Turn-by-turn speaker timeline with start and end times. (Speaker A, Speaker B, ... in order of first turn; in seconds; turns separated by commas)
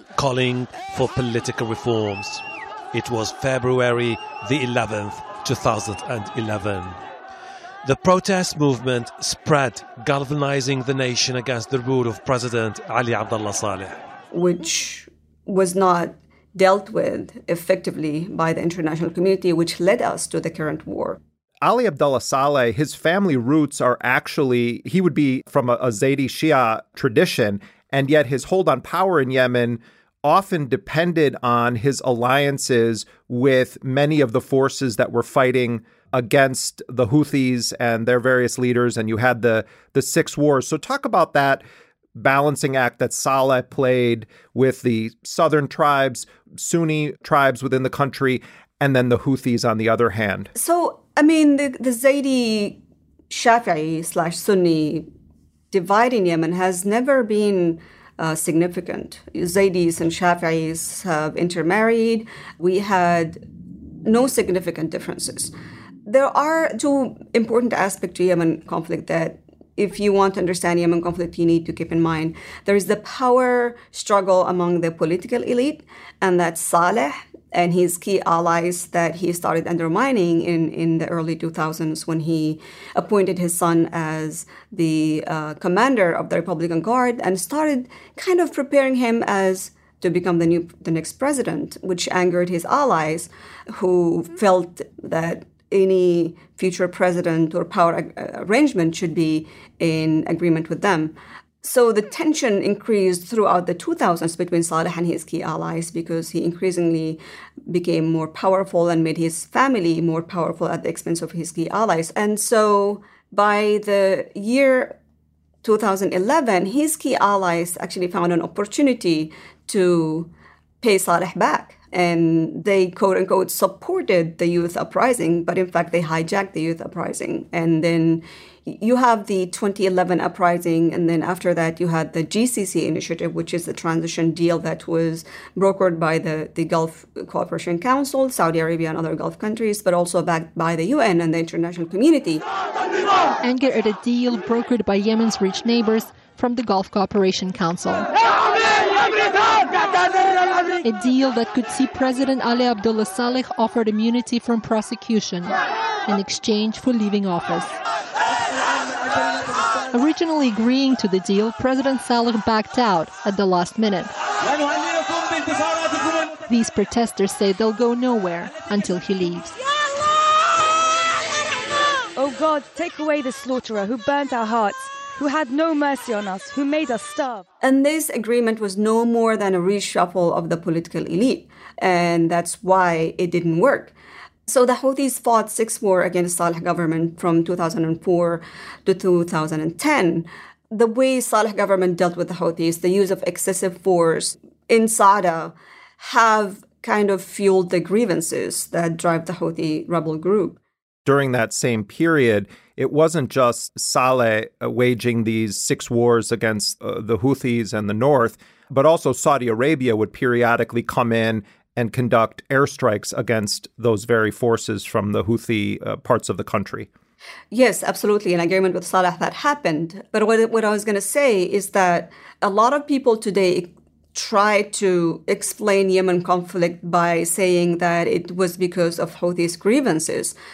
Speaker A: 0.2-2.4, Speaker A: 2.9-7.0, Speaker A: 7.9-13.9, Speaker B: 14.3-21.2, Speaker C: 21.6-41.6, Speaker C: 42.2-50.5, Speaker B: 50.6-55.1, Speaker B: 55.7-63.4, Speaker B: 64.1-65.5, Speaker B: 66.1-115.0, Speaker B: 115.6-120.3, Speaker B: 120.8-142.4, Speaker D: 143.4-148.1, Speaker D: 150.8-157.8, Speaker D: 159.9-164.1, Speaker D: 166.4-169.5, Speaker E: 172.2-177.4, Speaker B: 177.6-183.9, Speaker B: 184.5-200.6, Speaker C: 201.1-216.9, Speaker B: 217.5-230.3